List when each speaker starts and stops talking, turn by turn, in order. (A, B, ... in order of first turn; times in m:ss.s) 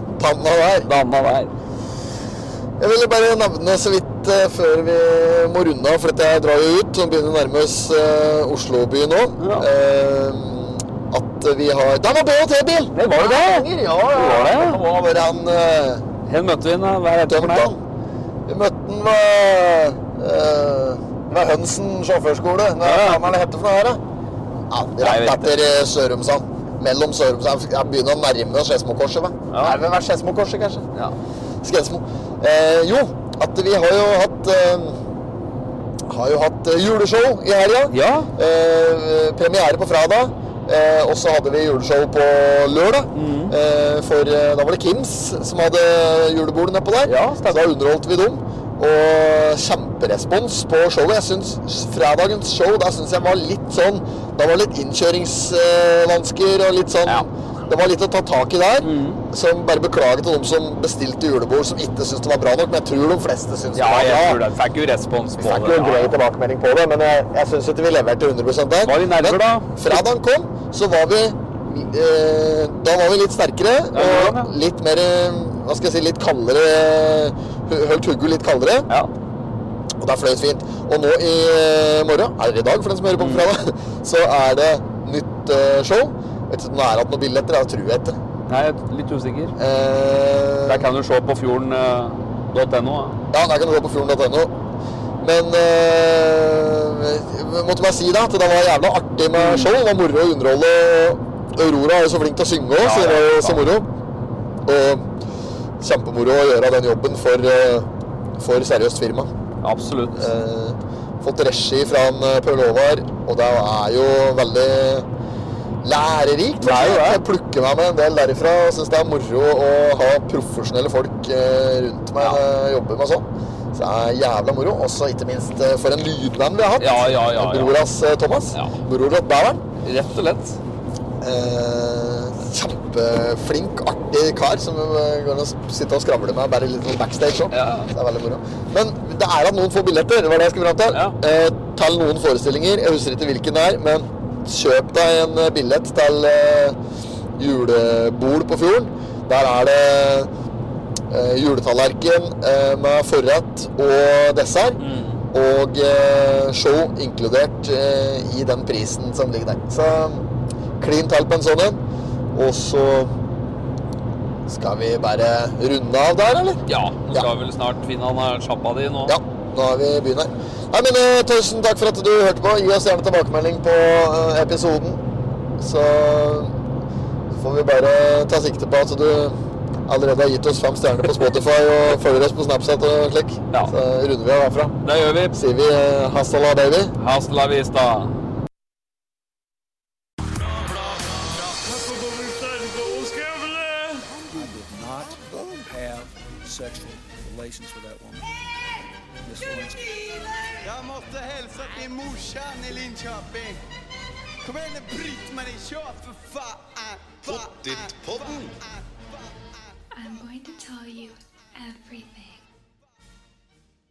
0:00.2-0:01.0 A
0:00.9-0:01.5 B
0:02.8-0:16.0 A
0:09.4-0:09.7 B
0:12.9-0:14.8 B
0:16.3-0:17.7 B
0:17.3-0:17.8 A
0:18.5-0:24.0 A
0:22.8-0:23.2 B
0:24.7-0:30.9 A
0:25.0-0:25.5 B
0:29.5-0:29.8 B
0:31.6-0:35.0 A
0:36.1-1:04.4 A
0:37.9-0:38.3 B
0:43.1-0:43.6 B
0:47.0-0:47.7 B
0:58.8-0:59.2 B
1:03.8-1:06.2 B
1:05.4-1:18.9 A
1:08.8-1:10.0 B
1:13.9-1:14.5 B
1:20.0-1:28.2 A
1:23.2-1:23.5 B
1:28.5-1:29.5 B
1:29.6-1:30.9 A
1:30.7-1:33.2 B
1:33.3-1:34.5 A
1:35.2-1:43.9 A
1:39.4-1:39.7 B
1:42.8-1:43.7 B
1:44.6-1:45.1 A
1:45.8-1:49.3 A
1:49.6-1:50.3 B
1:50.2-1:55.1 A
1:55.8-2:09.6 A
1:56.6-1:57.2 B
2:06.8-2:07.8 B
2:08.5-2:08.8 B
2:09.8-2:10.6 B
2:11.2-2:26.8 A
2:17.5-2:17.9 B
2:20.9-2:21.2 B
2:27.4-2:30.3 A
2:31.1-2:34.8 A
2:34.8-2:35.2 B
2:35.3-2:40.2 A
2:40.8-2:41.8 A
2:42.3-2:43.1 A
2:44.5-2:47.3 A
2:46.7-2:49.2 B
2:49.1-2:55.0 A
2:55.6-2:56.6 A
2:57.4-2:59.4 A
2:59.9-3:04.8 A
3:04.8-3:05.4 B
3:05.3-3:07.0 A
3:07.0-3:08.1 B
3:10.2-3:18.7 C
3:19.2-3:20.4 C
3:20.6-3:23.6 D
3:24.4-3:28.9 D
3:29.9-3:32.4 E